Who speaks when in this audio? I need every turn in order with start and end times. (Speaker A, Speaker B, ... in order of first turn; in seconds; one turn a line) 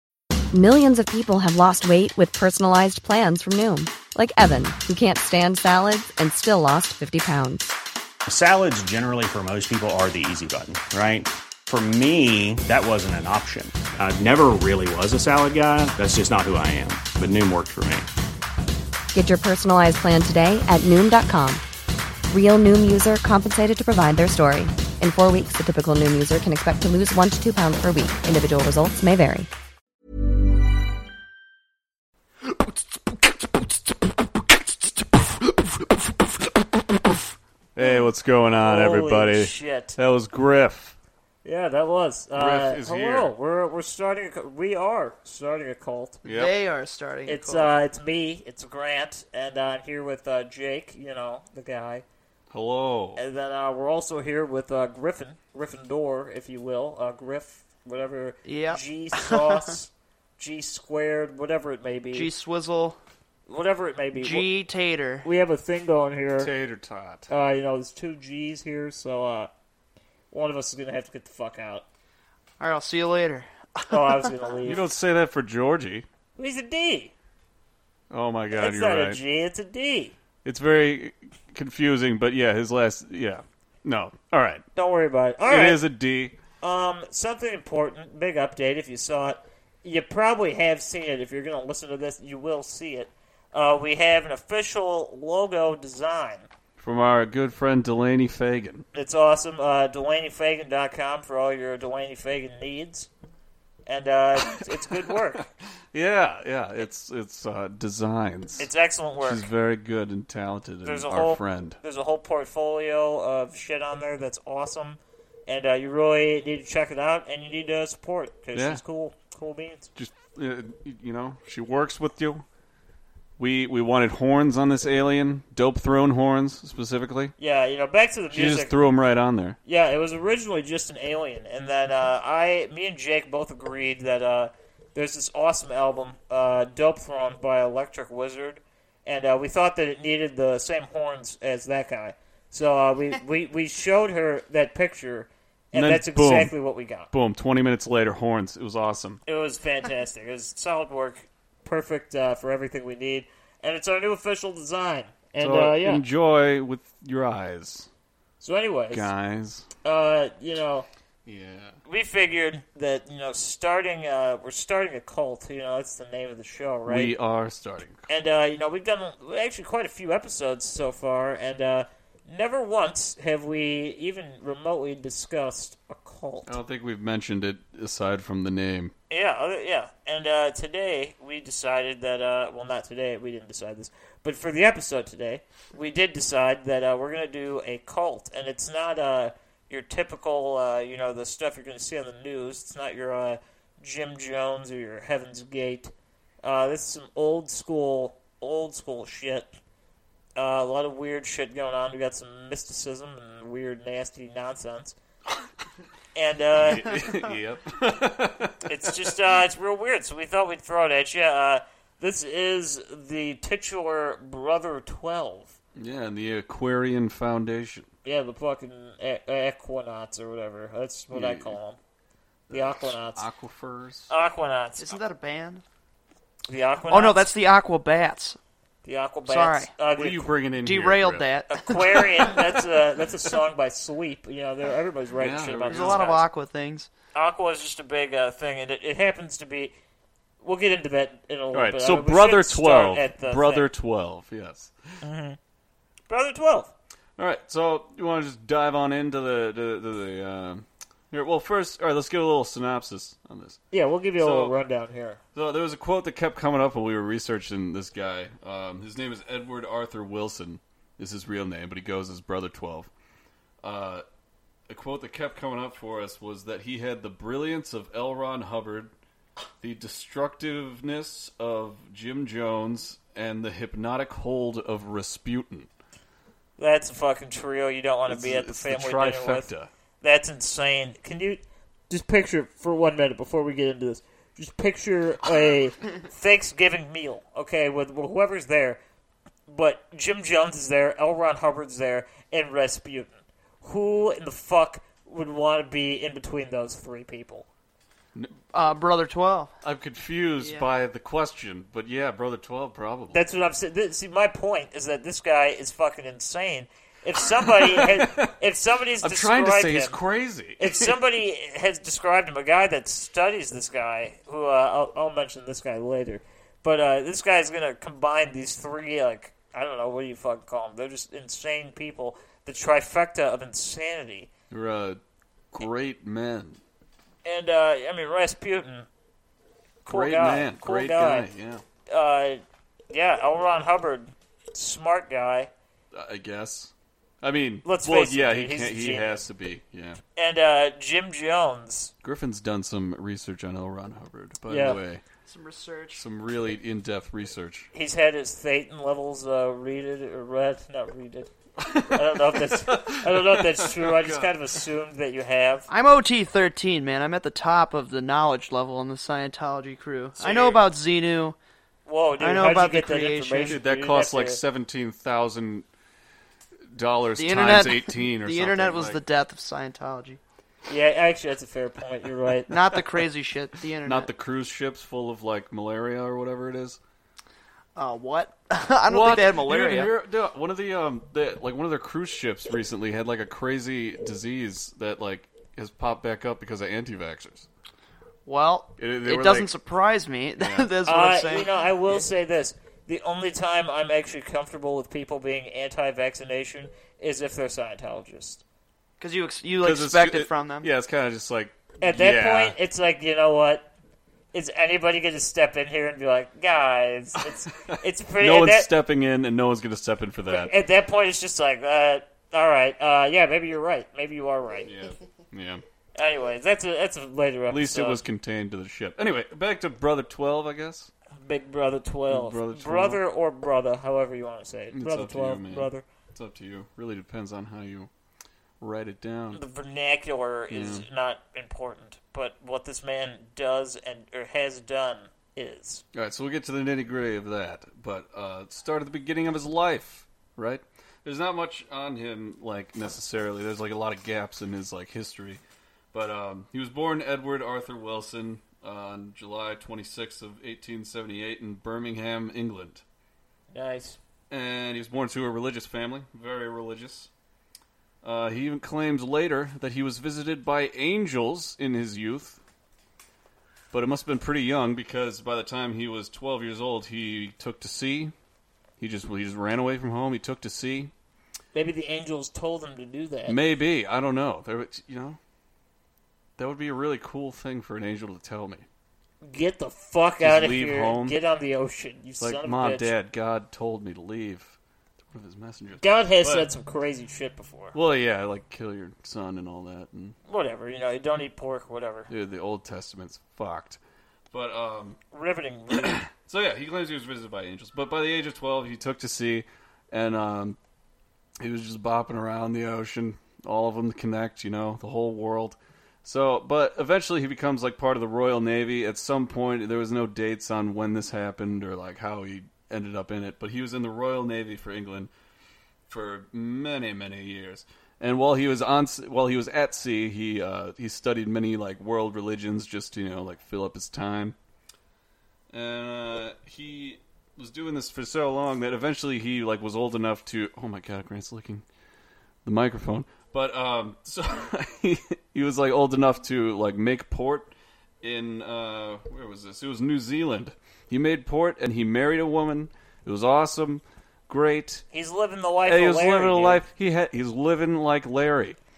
Speaker A: 0.5-7.7
Speaker B: 8.3-18.1
Speaker A: 19.1-21.6
Speaker A: 22.3-29.5
Speaker C: 37.8-41.0
Speaker D: 38.6-40.0
Speaker D: 41.4-46.2
Speaker C: 42.3-43.3
Speaker C: 46.2-46.5
Speaker E: 46.3-47.7
Speaker D: 47.3-52.0
Speaker C: 52.5-53.2
Speaker D: 53.2-62.3
Speaker E: 58.5-59.8
Speaker E: 62.1-63.0
Speaker D: 63.5-64.5
Speaker E: 64.2-65.3
Speaker D: 65.2-66.5
Speaker C: 66.4-67.3
Speaker D: 67.3-69.5
Speaker D: 70.3-71.8
Speaker E: 72.6-74.3
Speaker D: 73.9-74.8
Speaker C: 74.7-76.1
Speaker D: 76.4-77.1
Speaker C: 78.1-79.2
Speaker D: 78.5-80.2
Speaker C: 80.4-84.7
Speaker D: 84.8-85.8
Speaker C: 85.5-86.3
Speaker D: 86.6-96.5
Speaker C: 96.8-98.9
Speaker D: 98.9-103.1
Speaker D: 103.9-105.5
Speaker C: 104.4-108.7
Speaker D: 108.6-109.5
Speaker C: 109.2-111.8
Speaker D: 110.8-119.9
Speaker C: 118.5-118.8
Speaker C: 120.0-122.5
Speaker C: 123.4-127.3
Speaker D: 127.4-128.8
Speaker C: 128.3-129.6
Speaker D: 129.7-147.1
Speaker C: 145.7-146.6
Speaker C: 147.1-149.2
Speaker D: 149.3-156.0
Speaker C: 155.4-157.9
Speaker D: 158.4-159.1
Speaker C: 158.9-159.7
Speaker D: 159.8-160.9
Speaker C: 161.3-161.8
Speaker D: 161.8-167.1
Speaker C: 166.9-168.1
Speaker D: 168.1-176.6
Speaker C: 176.5-178.9
Speaker D: 179.1-199.5
Speaker D: 200.4-205.0
Speaker D: 206.2-207.0
Speaker C: 206.6-208.9
Speaker D: 208.7-215.6
Speaker C: 215.8-217.9
Speaker D: 218.1-221.8
Speaker C: 221.1-221.6
Speaker C: 222.5-224.1
Speaker D: 222.5-223.3
Speaker D: 224.1-224.9
Speaker E: 224.8-225.6
Speaker D: 226.5-227.3
Speaker E: 226.9-228.4
Speaker D: 228.8-230.3
Speaker E: 229.3-229.7
Speaker C: 230.0-231.3
Speaker E: 230.6-232.3
Speaker D: 231.5-236.2
Speaker C: 235.2-236.1
Speaker E: 235.7-236.9
Speaker D: 237.1-239.7
Speaker D: 240.4-243.7
Speaker C: 241.5-245.0
Speaker D: 245.0-245.4
Speaker D: 246.1-246.7
Speaker C: 247.2-253.6
Speaker D: 253.7-255.2
Speaker C: 254.2-254.5
Speaker C: 255.3-262.9
Speaker C: 263.6-264.0
Speaker C: 264.7-268.9
Speaker C: 269.6-275.7
Speaker D: 276.6-279.5
Speaker C: 278.1-279.7
Speaker D: 280.0-288.8
Speaker D: 289.5-293.1
Speaker D: 293.6-297.5
Speaker E: 298.5-299.5
Speaker C: 299.6-303.2
Speaker E: 300.4-300.7
Speaker D: 303.1-310.0
Speaker C: 307.5-308.3
Speaker C: 309.0-311.0
Speaker D: 310.6-324.3
Speaker C: 324.5-325.0
Speaker C: 325.5-326.6
Speaker D: 327.2-328.9
Speaker D: 329.9-331.3
Speaker C: 329.9-331.6
Speaker D: 331.9-335.5
Speaker C: 335.9-340.0
Speaker D: 337.6-339.2
Speaker D: 340.2-341.9
Speaker C: 342.0-345.0
Speaker D: 344.5-344.8
Speaker E: 345.3-346.1
Speaker C: 345.9-347.7
Speaker D: 347.7-351.3
Speaker C: 351.6-354.4
Speaker D: 351.8-355.7
Speaker E: 355.7-361.4
Speaker C: 360.2-360.6
Speaker D: 361.9-364.4
Speaker E: 362.2-363.6
Speaker C: 363.5-365.7
Speaker C: 366.7-369.0
Speaker E: 367.2-370.2
Speaker D: 370.7-372.5
Speaker E: 372.5-374.1
Speaker C: 373.9-376.8
Speaker E: 377.8-379.9
Speaker C: 378.9-387.5
Speaker E: 388.3-391.5
Speaker C: 388.8-389.5
Speaker C: 390.4-390.7
Speaker D: 390.9-398.4
Speaker E: 399.0-400.7
Speaker C: 399.6-402.6
Speaker D: 401.8-403.7
Speaker D: 404.3-408.7
Speaker C: 407.2-410.5
Speaker D: 410.3-414.7
Speaker C: 414.7-415.6
Speaker D: 415.9-418.0
Speaker C: 417.5-420.9
Speaker D: 421.2-425.9
Speaker C: 422.1-423.0
Speaker C: 424.7-427.9
Speaker C: 428.6-429.4
Speaker D: 429.3-435.8
Speaker C: 430.5-430.9
Speaker C: 435.9-445.4
Speaker C: 445.9-452.8
Speaker D: 453.5-454.0
Speaker C: 454.3-457.1
Speaker C: 458.0-462.4
Speaker C: 463.7-468.1
Speaker C: 468.8-470.9
Speaker D: 471.5-473.4
Speaker C: 473.3-475.2
Speaker C: 476.4-478.7
Speaker D: 479.2-482.9
Speaker C: 480.2-481.2
Speaker C: 482.2-484.6
Speaker C: 485.1-486.5
Speaker D: 485.8-487.8
Speaker C: 487.7-490.2
Speaker D: 490.3-492.1
Speaker C: 492.1-493.8
Speaker C: 494.3-495.0
Speaker D: 495.1-496.0
Speaker C: 495.7-500.6
Speaker C: 501.4-515.1
Speaker C: 515.9-524.4
Speaker C: 525.5-531.6
Speaker C: 532.5-544.9
Speaker D: 544.9-546.6
Speaker C: 545.6-548.6